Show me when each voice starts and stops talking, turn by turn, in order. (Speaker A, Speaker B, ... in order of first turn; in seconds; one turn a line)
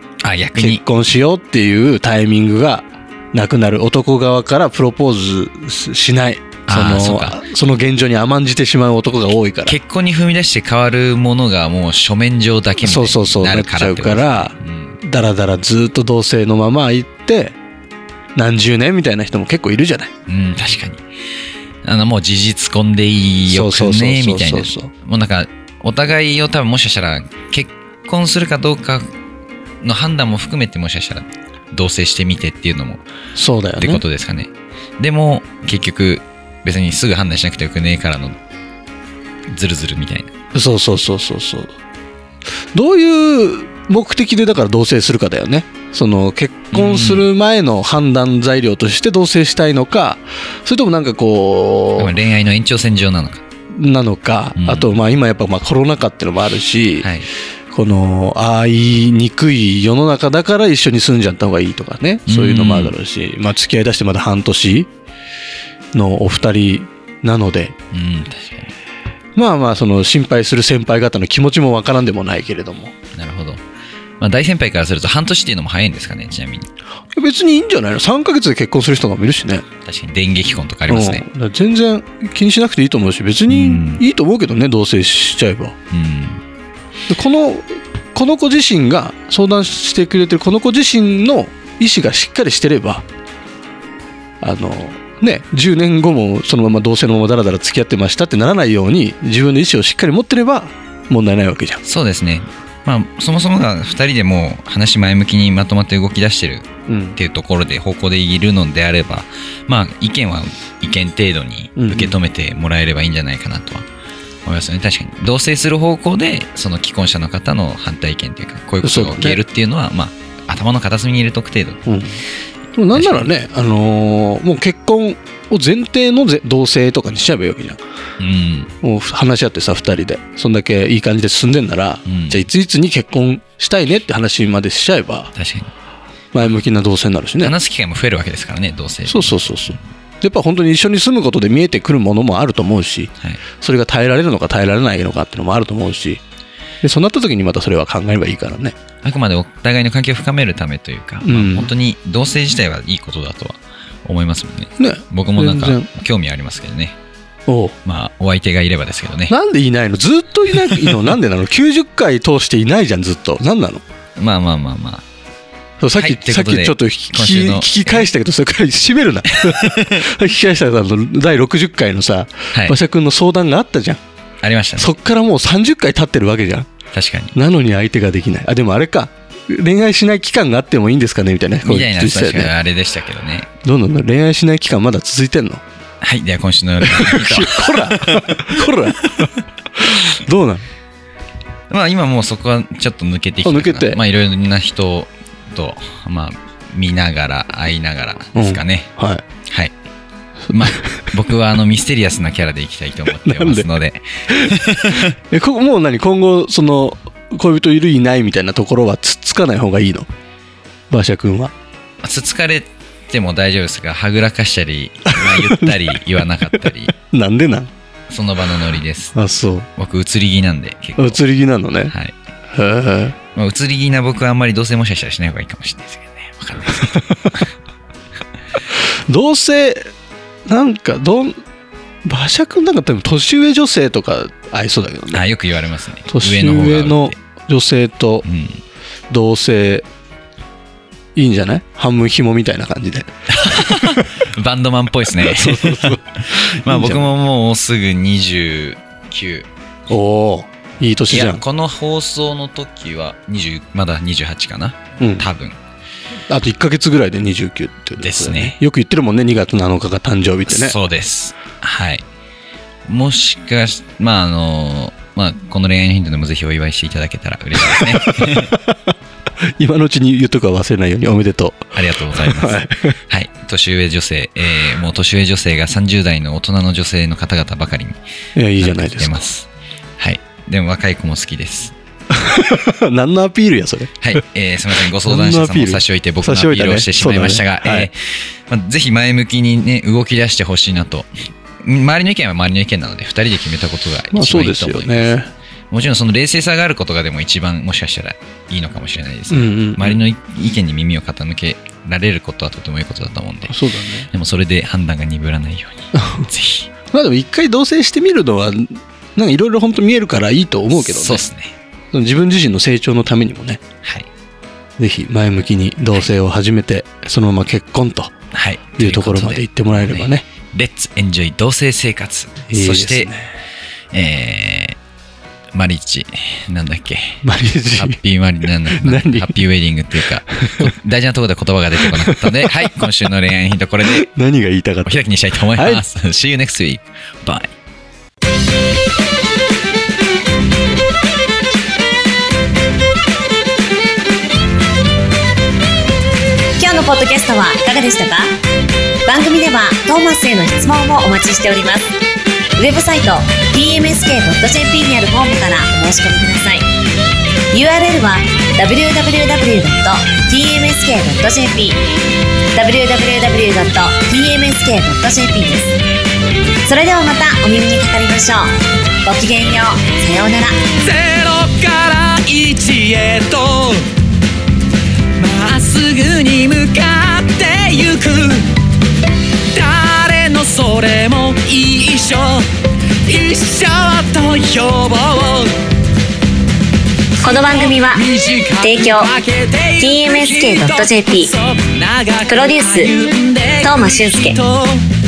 Speaker A: 0.2-0.8
Speaker B: 0.6-9.8
Speaker A: 6.7-7.4
Speaker A: 9.7-15.0
Speaker B: 12.8-17.5
Speaker B: 18.4-20.1
Speaker A: 20.3-21.0
Speaker A: 21.8-29.1
Speaker B: 23.5-24.9
Speaker A: 29.8-33.0
Speaker B: 33.4-34.0
Speaker A: 33.8-38.4
Speaker A: 39.5-40.3
Speaker B: 40.5-41.7
Speaker B: 42.7-52.1
Speaker A: 46.7-47.3
Speaker A: 52.0-53.4
Speaker B: 53.7-57.1
Speaker A: 54.6-54.9
Speaker A: 57.0-57.3
Speaker B: 57.7-64.9
Speaker A: 62.2-62.9
Speaker B: 65.9-67.8
Speaker A: 67.9-68.7
Speaker B: 69.3-72.9
Speaker A: 73.1-73.6
Speaker A: 74.2-76.7
Speaker B: 77.1-79.7
Speaker A: 79.8-81.2
Speaker B: 80.9-85.8
Speaker A: 83.5-84.0
Speaker A: 85.9-86.4
Speaker B: 87.1-93.0
Speaker B: 94.4-101.8
Speaker A: 101.8-113.8
Speaker B: 106.9-107.2
Speaker B: 111.8-112.2
Speaker A: 114.5-121.8
Speaker B: 118.8-119.4
Speaker B: 121.8-122.2
Speaker B: 122.7-127.8
Speaker A: 122.9-123.3
Speaker A: 128.2-128.7
Speaker B: 128.8-135.3
Speaker A: 132.1-132.4
Speaker A: 135.3-135.7
Speaker B: 136.3-137.5
Speaker A: 137.4-139.8
Speaker B: 139.1-146.2
Speaker B: 146.8-148.8
Speaker A: 149.0-156.9
Speaker B: 151.2-151.7
Speaker B: 154.8-155.9
Speaker B: 157.5-157.7
Speaker A: 157.8-159.3
Speaker B: 159.3-163.8
Speaker A: 160.5-161.0
Speaker A: 164.2-165.0
Speaker B: 165.8-174.0
Speaker A: 166.0-168.1
Speaker A: 169.3-170.0
Speaker A: 172.5-172.8
Speaker A: 174.4-174.9
Speaker B: 174.8-176.7
Speaker A: 176.9-177.3
Speaker B: 177.3-182.5
Speaker A: 181.6-183.5
Speaker B: 183.6-185.6
Speaker A: 186.0-188.9
Speaker B: 186.8-190.6
Speaker A: 191.7-198.9
Speaker B: 193.4-194.0
Speaker B: 198.3-199.2
Speaker A: 200.5-205.1
Speaker B: 203.2-203.7
Speaker B: 204.3-210.1
Speaker B: 210.9-211.5
Speaker A: 212.0-216.9
Speaker B: 215.2-215.8
Speaker B: 217.1-217.7
Speaker A: 218.1-219.2
Speaker B: 219.1-219.7
Speaker A: 219.8-221.2
Speaker B: 221.0-221.9
Speaker A: 221.9-222.1
Speaker B: 222.5-223.2
Speaker A: 223.3-227.4
Speaker B: 226.9-227.3
Speaker B: 229.1-229.9
Speaker B: 230.4-231.3
Speaker B: 232.0-235.2
Speaker A: 235.1-237.2
Speaker B: 236.1-238.2
Speaker A: 238.2-238.6
Speaker B: 239.1-239.8
Speaker B: 241.1-243.1
Speaker A: 243.3-249.5
Speaker B: 243.7-244.1
Speaker B: 245.1-247.1
Speaker B: 249.9-251.4
Speaker A: 251.1-255.6
Speaker B: 255.0-255.2
Speaker B: 256.3-260.8
Speaker A: 258.0-258.6
Speaker A: 260.5-262.0
Speaker A: 262.9-268.6
Speaker B: 267.6-268.8
Speaker B: 269.6-273.0
Speaker A: 271.7-278.0
Speaker B: 278.4-279.2
Speaker A: 278.6-279.5
Speaker A: 280.0-281.7
Speaker B: 282.1-284.2
Speaker A: 284.0-291.1
Speaker B: 285.0-287.9
Speaker A: 291.6-295.1
Speaker B: 294.1-295.3
Speaker A: 295.7-303.6
Speaker B: 299.3-300.0
Speaker B: 303.5-304.1
Speaker A: 304.1-306.7
Speaker B: 305.9-306.2
Speaker B: 306.9-311.2
Speaker A: 310.7-311.5
Speaker B: 311.9-313.6
Speaker A: 313.8-314.1
Speaker B: 314.8-318.1
Speaker A: 318.3-323.1
Speaker B: 318.8-320.2
Speaker B: 322.5-323.3
Speaker A: 323.9-324.8
Speaker A: 325.5-327.2
Speaker B: 327.2-328.0
Speaker A: 327.8-334.1
Speaker B: 328.8-329.4
Speaker B: 330.4-330.7
Speaker B: 331.9-332.9
Speaker B: 333.9-335.0
Speaker A: 334.9-337.5
Speaker B: 335.5-335.8
Speaker C: 346.6-348.3
Speaker C: 349.1-351.9
Speaker C: 352.6-356.6
Speaker C: 357.5-361.8
Speaker C: 362.5-365.8
Speaker C: 366.6-368.5
Speaker C: 369.0-370.5
Speaker D: 370.8-373.9
Speaker D: 375.2-378.6
Speaker D: 379.5-382.5
Speaker D: 383.0-385.6
Speaker C: 387.2-389.1
Speaker D: 387.5-394.8
Speaker C: 389.7-391.4
Speaker C: 392.2-393.1
Speaker C: 393.6-394.4